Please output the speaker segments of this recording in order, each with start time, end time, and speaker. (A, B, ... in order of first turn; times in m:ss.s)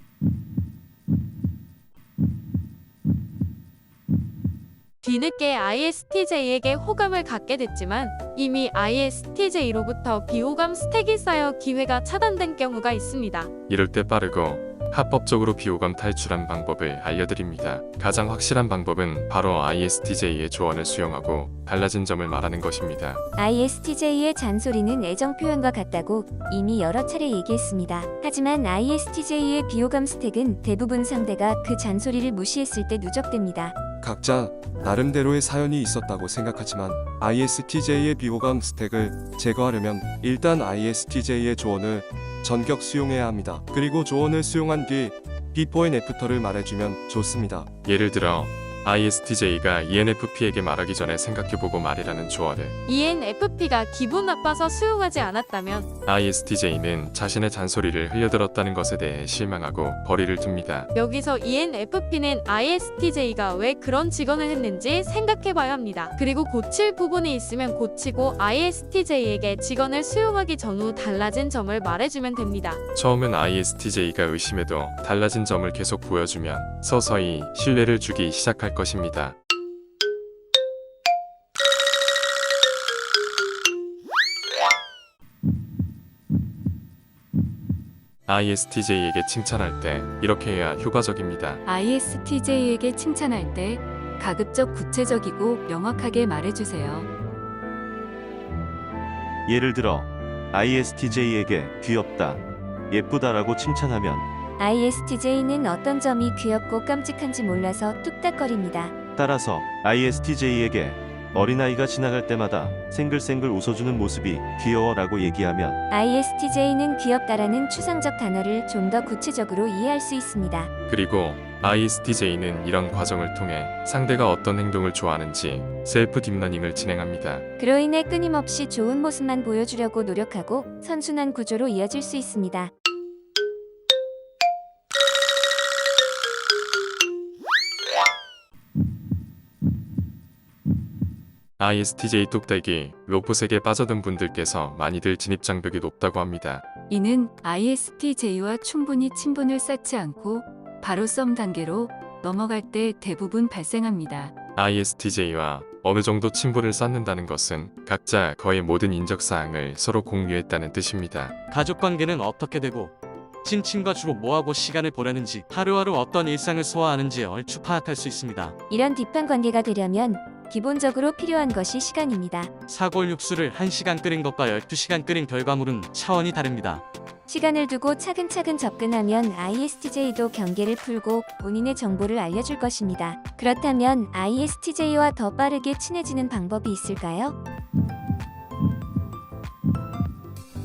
0:05.0-0:13.5 A
0:13.7-0:23.2 B
0:23.4-0:33.8 C
0:34.0-0:47.7 D
0:47.8-0:52.8 B
0:52.9-0:55.9 A
0:56.1-1:00.9 B
1:00.9-1:12.8 A
1:12.9-1:19.4 B
1:28.3-1:31.6 B
1:32.1-1:37.1 E
1:39.5-1:44.3 F
1:44.6-1:48.9 C
1:49.2-1:55.8 F
1:55.9-2:00.7 C
2:00.9-2:07.4 B
2:07.6-2:12.7 C
2:21.6-2:26.7 B
2:26.9-2:30.2 E
2:30.8-2:34.3 E
2:34.6-2:41.3 B
2:41.5-2:42.9 G
2:43.4-2:48.5 G
2:48.7-2:52.5 C
2:52.7-2:56.8 G
2:57.3-3:07.3 C